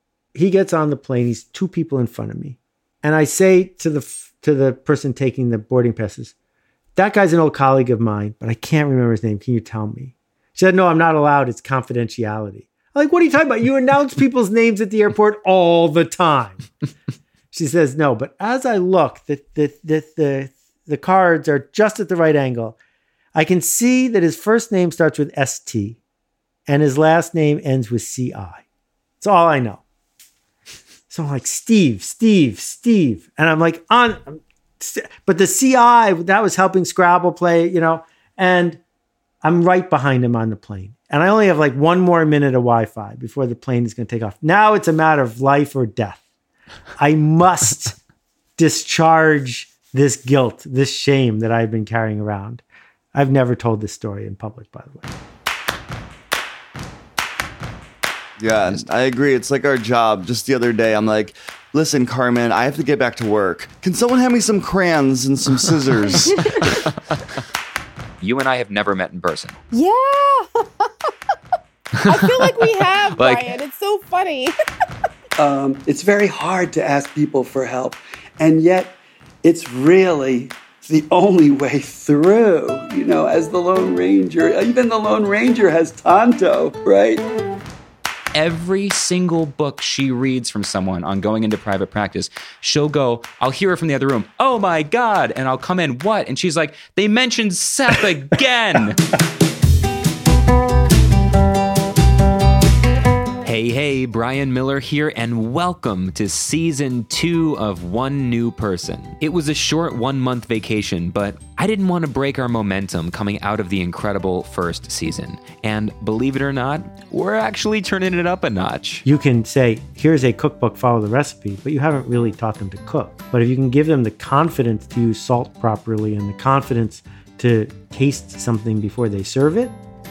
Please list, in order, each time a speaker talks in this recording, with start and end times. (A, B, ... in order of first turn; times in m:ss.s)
0:00.4-0:06.3 A
0:07.0-0:16.7 A
0:17.5-0:22.8 A
0:23.3-0:26.0 A
0:26.7-0:28.6 A
0:29.2-0:29.8 A
0:31.1-0:38.8 A
0:39.4-0:46.2 A
0:47.0-0:48.0 A
0:48.6-0:52.6 A
0:53.1-0:55.1 A
0:58.4-1:06.8 B
0:58.6-0:58.8 C
1:06.7-1:07.2 C
1:08.2-1:09.6 C
1:09.7-1:10.9 D
1:12.1-1:14.5 D
1:12.2-1:13.5 C
1:15.4-1:27.2 E
1:28.3-1:39.0 C
1:43.4-1:59.0 C
1:59.1-2:09.7 A